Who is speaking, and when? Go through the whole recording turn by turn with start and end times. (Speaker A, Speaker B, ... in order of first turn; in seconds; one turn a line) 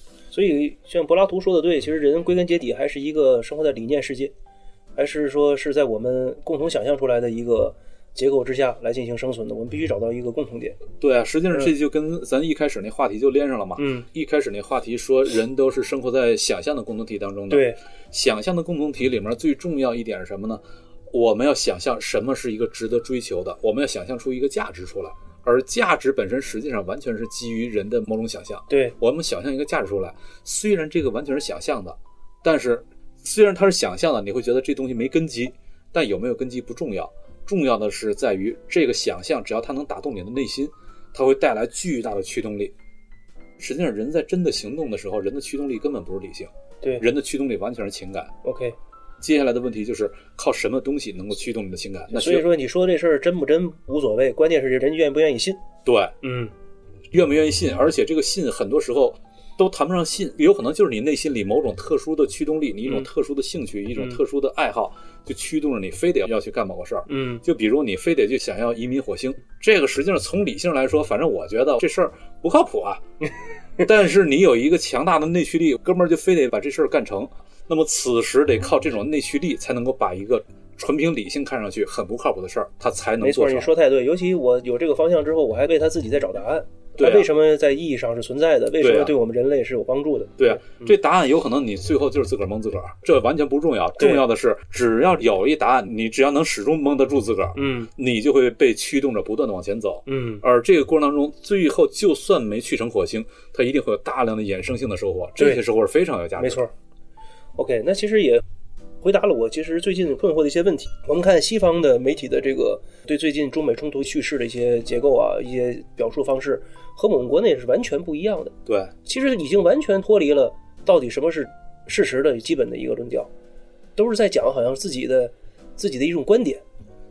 Speaker A: 0.3-4.3
Speaker A: 5.0-10.8
Speaker B: 11.0-42.7
Speaker A: 13.8-14.1
Speaker A: 17.5-17.8
Speaker A: 28.7-29.0
Speaker B: 43.6-48.3
Speaker A: 48.4-48.8
Speaker B: 49.2-52.5
Speaker A: 52.1-55.6
Speaker B: 55.9-56.1
Speaker A: 56.2-56.5
Speaker B: 57.1-73.0
Speaker A: 67.1-67.4
Speaker B: 73.8-83.7
Speaker A: 83.2-91.0
Speaker B: 87.0-87.3
Speaker B: 88.8-89.2
Speaker B: 90.4-106.6
Speaker A: 94.0-94.2
Speaker A: 97.6-97.9
Speaker A: 100.1-100.4
Speaker A: 106.4-106.7
Speaker A: 107.6-108.4
Speaker A: 109.0-118.5
Speaker B: 118.7-118.9
Speaker A: 119.0-123.3
Speaker A: 124.0-126.6